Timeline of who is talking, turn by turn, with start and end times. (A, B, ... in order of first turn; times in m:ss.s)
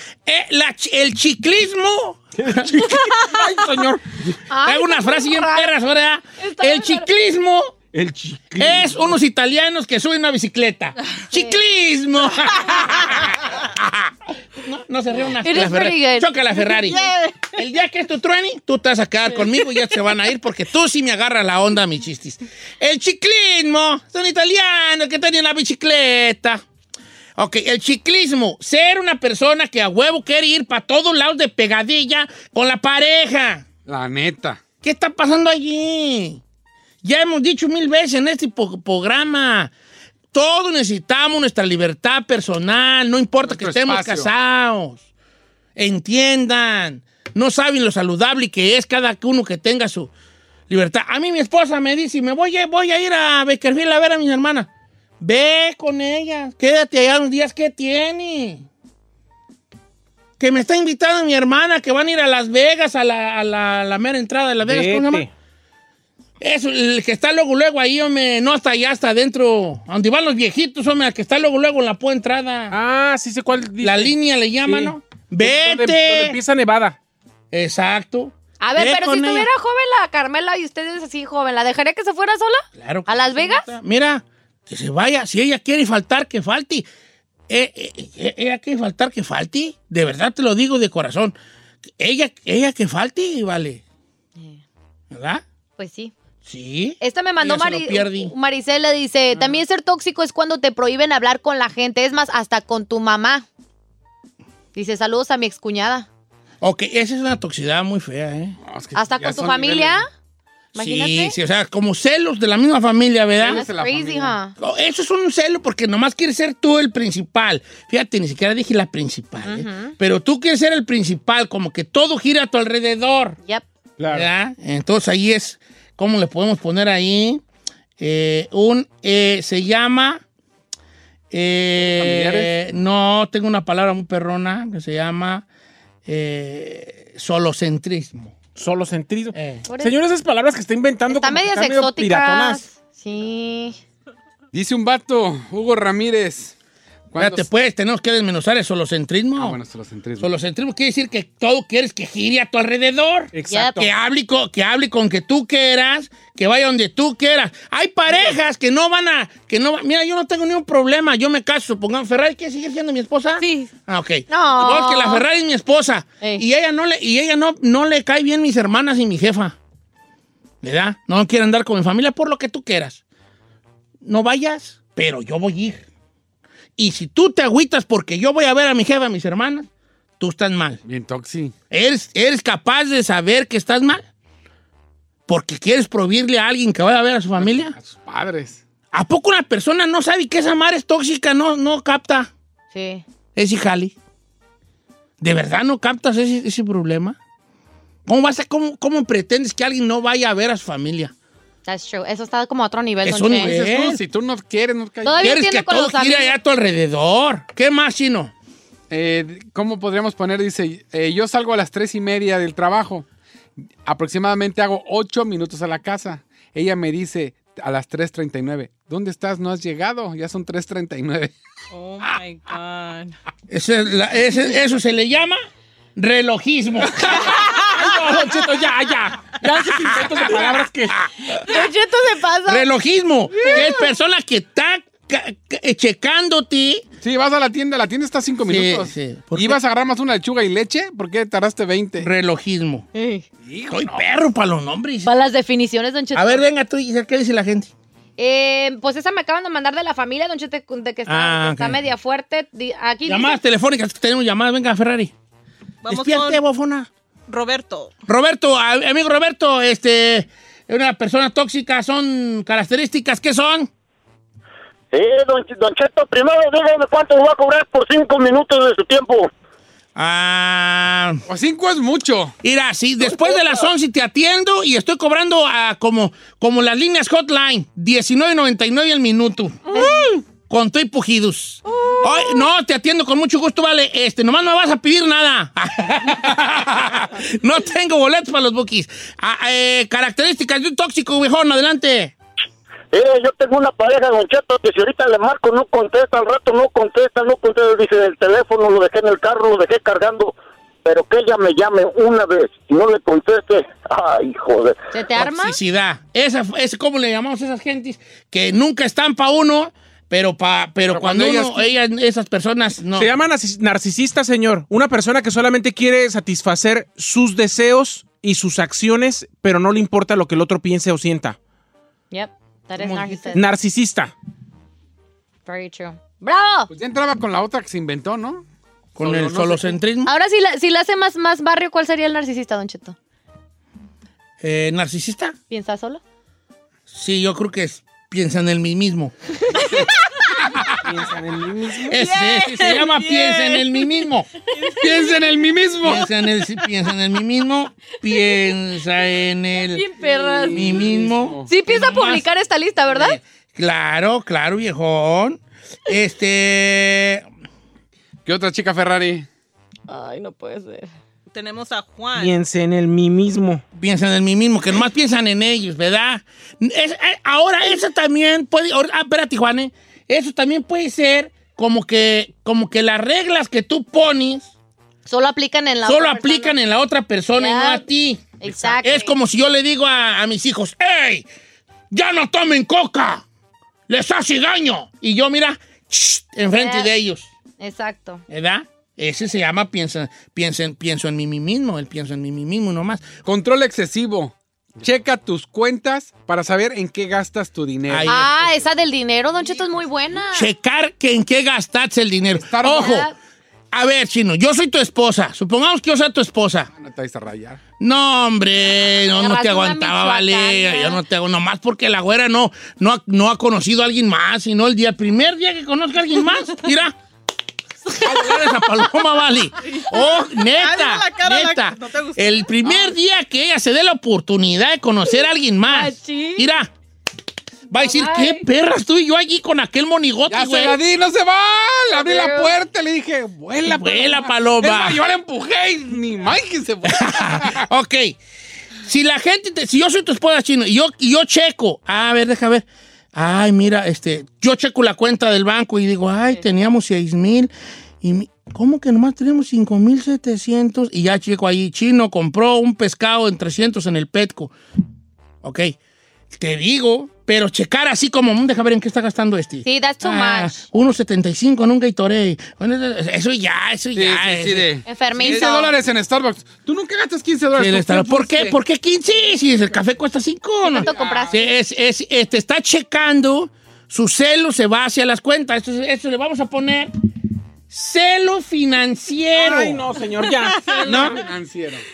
0:00.2-0:07.7 A
0:04.5-0:05.7 B
0:06.4-0:07.1 B
0:07.9-0:09.0 C
0:08.6-0:26.6 A
0:15.4-0:16.3 B
0:16.6-0:17.5 D
0:27.4-0:33.6 A
0:33.8-0:34.6 C
0:34.8-0:36.4 A
0:37.0-0:39.7 A
0:40.3-0:45.0 A
0:43.4-0:44.3 C
0:45.8-0:50.1 A
0:50.7-0:54.7 A
0:55.2-0:58.7 A
1:00.4-1:05.2 A
1:04.6-1:05.3 E
1:06.4-1:12.7 A
1:12.7-1:14.1 E
1:13.8-1:16.4 A
1:14.6-1:17.0 E
1:17.5-1:19.5 A
1:18.6-1:23.6 B
1:22.7-1:26.8 A
1:27.5-1:31.4 A
1:32.0-1:33.8 A
1:35.1-1:35.4 A
1:35.8-1:36.1 B
1:36.4-1:38.3 A
1:37.0-1:43.4 B
1:44.7-1:46.1 B
1:46.6-1:48.6 A
1:48.6-1:50.0 C
1:49.0-1:50.0 B
1:50.7-1:51.4 B
1:50.8-1:53.7 A
1:53.4-1:54.4 C
1:53.5-1:54.5 B
1:54.6-2:03.4 A
1:59.4-1:59.9 B
2:04.0-2:04.2 E
2:04.1-2:07.4 A
2:08.0-2:10.2 A
2:11.3-2:15.4 A
2:11.9-2:12.5 C
2:16.0-2:18.3 A
2:18.6-2:22.6 E
2:19.3-2:19.6 A
2:19.7-2:20.0 B
2:21.1-2:23.8 B
2:24.5-2:26.5 C
2:27.1-2:27.5 C
2:27.2-2:29.6 A
2:29.4-2:30.3 C
2:30.2-2:49.6 A
2:33.3-2:33.9 E
2:33.5-2:33.8 B
2:43.4-2:43.7 B
2:44.3-2:45.2 B
2:50.6-2:53.0 A
2:54.0-2:55.8 A
2:56.8-2:59.7 A
3:00.2-3:00.8 A
3:00.8-3:01.5 C
3:01.7-3:04.0 A
3:05.3-3:07.8 A
3:07.4-3:08.6 C
3:08.9-3:12.3 A
3:12.7-3:13.0 B
3:13.4-3:13.9 A
3:15.2-3:17.2 A
3:18.1-3:21.1 A
3:21.6-3:23.5 B
3:23.0-3:24.0 A
3:23.3-3:25.3 C
3:25.0-3:26.3 B
3:25.2-3:28.3 A
3:28.9-3:33.0 C
3:33.8-3:41.3 C
3:41.7-3:43.1 D
3:43.5-3:45.4 A
3:46.0-3:47.9 A
3:47.3-3:50.9 E
3:49.8-3:51.5 A
3:51.5-3:52.6 B
3:52.5-3:56.8 A
3:57.0-4:02.1 C
3:58.5-3:59.6 A
4:02.0-4:02.9 A
4:02.9-4:03.2 B
4:03.4-4:04.0 C
4:03.7-4:05.1 A
4:05.0-4:06.4 B
4:06.1-4:07.7 A
4:08.2-4:13.4 B
4:11.1-4:11.8 A
4:13.0-4:15.1 A
4:15.8-4:16.4 D
4:15.9-4:16.9 A
4:17.3-4:17.9 D
4:18.1-4:23.7 A
4:24.9-4:29.3 F
4:30.0-4:31.2 A
4:31.3-4:32.3 C
4:32.4-4:39.6 A
4:39.7-4:40.1 B
4:39.8-4:40.2 D
4:40.5-4:52.1 A
4:52.9-5:00.3 F
5:00.8-5:04.8 F
5:04.9-5:05.6 B
5:05.2-5:13.1 A
5:10.9-5:11.7 C
5:13.0-5:21.4 E
5:22.1-5:23.4 B
5:22.8-5:23.4 A
5:23.3-5:24.1 E
5:25.5-5:26.7 B
5:26.7-5:28.4 C
5:29.0-5:30.1 A
5:29.0-5:29.8 C
5:30.0-5:32.9 B
5:34.4-5:35.3 A
5:35.5-5:36.0 B
5:36.9-5:39.1 A
5:40.8-5:42.0 E
5:41.8-5:45.5 D
5:41.9-5:44.3 A
5:44.7-5:46.1 C
5:45.8-5:49.8 A
5:49.6-5:50.6 B
5:50.1-5:51.5 C
5:50.5-5:52.3 A
5:51.4-5:53.2 B
5:52.9-5:57.2 A
5:58.2-5:59.3 C
5:59.9-6:00.9 B
6:01.3-6:02.3 D
6:02.2-6:03.6 E
6:03.8-6:14.5 A
6:15.0-6:16.6 B
6:15.8-6:18.3 A
6:17.4-6:17.8 B
6:18.4-6:19.1 B
6:18.4-6:18.8 E
6:18.8-6:21.2 A
6:21.9-6:23.2 A
6:23.9-6:27.3 A
6:26.5-6:26.9 B
6:27.6-6:28.2 B
6:28.3-6:33.1 A
6:33.2-6:38.4 C
6:37.9-6:38.3 A
6:38.0-6:40.5 B
6:40.3-6:43.1 A
6:42.3-6:43.0 C
6:42.6-6:43.1 B
6:43.7-6:46.7 A
6:46.7-6:47.6 C
6:47.8-6:56.9 A
6:49.1-6:51.0 B
6:58.0-7:06.7 A
6:59.6-7:02.9 D
7:05.7-7:06.4 B
7:07.7-7:10.8 A
7:07.8-7:08.4 B
7:10.3-7:17.7 C
7:11.9-7:12.6 B
7:13.6-7:15.0 A
7:16.9-7:18.2 A
7:18.8-7:27.5 A
7:28.0-7:34.5 A
7:35.4-7:35.7 A
7:36.3-7:44.7 A
7:39.6-7:40.6 B
7:43.9-7:48.6 C
7:44.8-7:45.7 B
7:47.6-7:56.9 A
7:50.7-7:51.4 B
7:50.7-7:51.4 C
7:57.7-7:59.8 A
7:59.3-8:00.6 E
8:00.6-8:01.8 C
8:00.7-8:01.0 D
8:00.8-8:01.2 A